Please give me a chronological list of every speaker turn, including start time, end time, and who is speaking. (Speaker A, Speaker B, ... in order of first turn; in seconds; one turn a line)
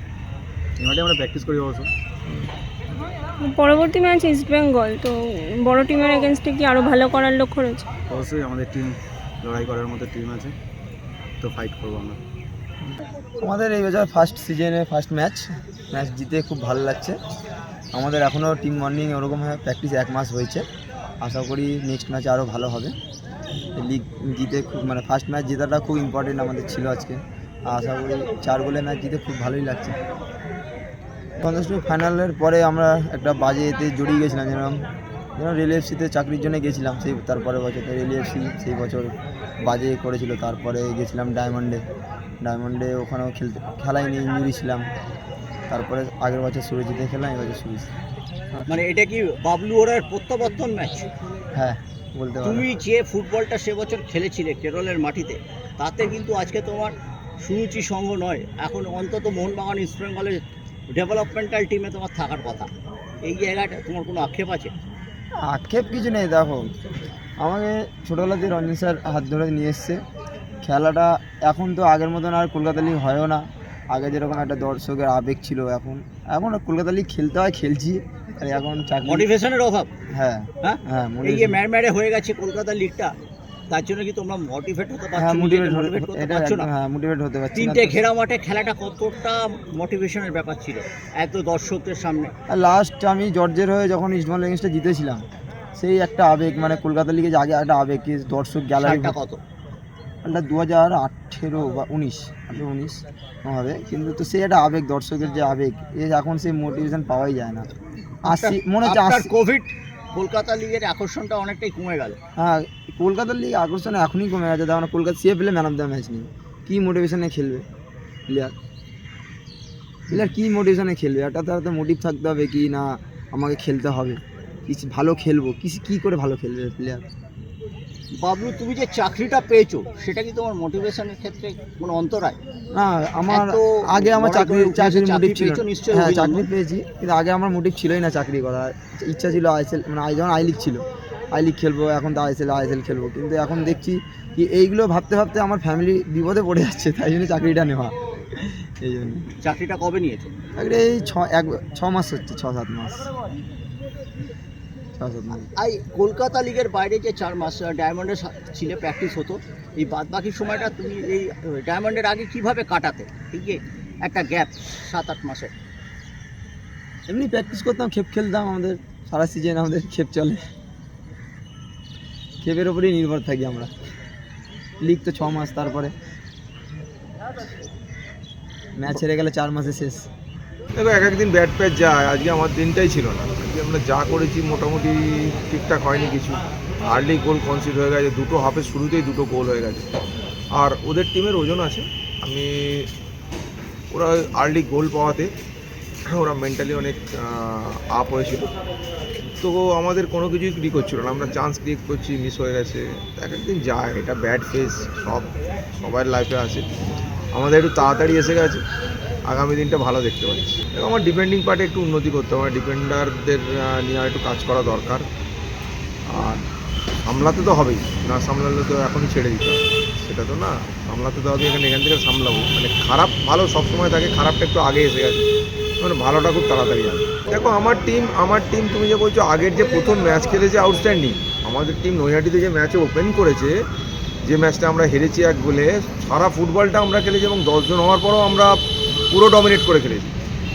Speaker A: 0.8-1.9
Speaker B: 3.4-7.9
Speaker A: 8.1-10.5
Speaker A: 11.4-12.2
Speaker C: 12.9-17.2
Speaker C: 17.9-20.6
Speaker C: 21.2-22.9
Speaker C: 23.8-30.0
Speaker C: 31.4-34.8
Speaker C: 35.4-41.8
Speaker C: 42.4-44.9
Speaker C: 45.7-47.9
Speaker D: 48.7-51.1
Speaker C: 51.5-52.7
Speaker D: 52.4-62.7
Speaker D: 63.2-64.7
Speaker C: 65.5-66.7
Speaker C: 67.4-70.0
Speaker C: 70.6-79.3
Speaker D: 79.0-79.9
Speaker C: 80.1-81.6
Speaker D: 80.6-83.1
Speaker D: 83.7-86.7
Speaker C: 85.2-88.0
Speaker D: 87.5-92.3
Speaker C: 92.5-95.2
Speaker C: 95.8-99.2
Speaker D: 98.8-99.4
Speaker C: 100.2-107.7
Speaker C: 108.2-109.3
Speaker D: 108.3-112.2
Speaker C: 112.4-117.7
Speaker C: 120.1-127.0
Speaker D: 128.2-132.4
Speaker C: 132.7-140.8
Speaker D: 133.3-136.5
Speaker C: 141.3-149.3
Speaker D: 149.4-150.4
Speaker C: 150.6-153.1
Speaker C: 155.0-155.5
Speaker D: 155.6-165.5
Speaker C: 167.1-170.4
Speaker C: 172.4-173.7
Speaker C: 174.8-175.9
Speaker C: 178.8-180.1
Speaker E: 180.8-189.9
Speaker E: 190.5-192.9
Speaker E: 193.9-195.3
Speaker E: 196.1-198.5
Speaker E: 199.4-206.7
Speaker E: 207.3-208.6
Speaker E: 209.3-215.1
Speaker E: 216.1-216.4
Speaker E: 217.1-225.2
Speaker E: 225.8-233.7
Speaker E: 234.2-240.1